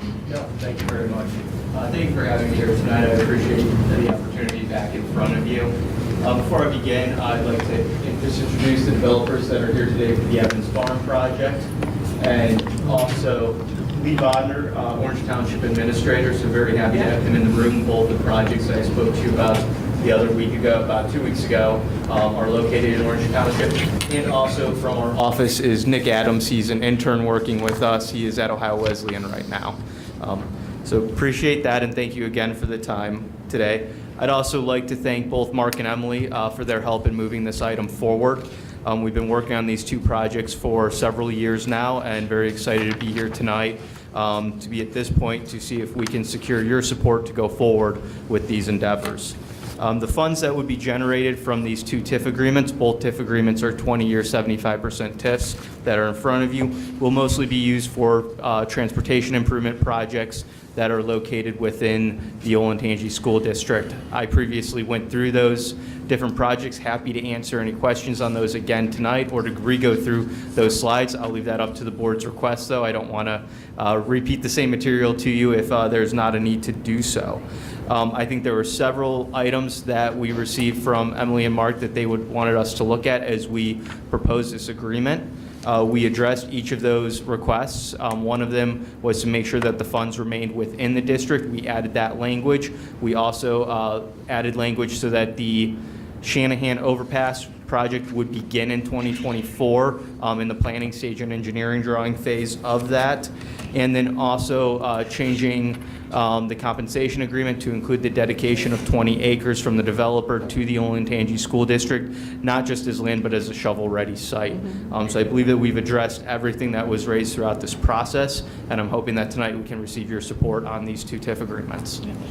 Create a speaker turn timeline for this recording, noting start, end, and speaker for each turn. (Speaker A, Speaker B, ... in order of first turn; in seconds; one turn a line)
Speaker A: 0.2-122.0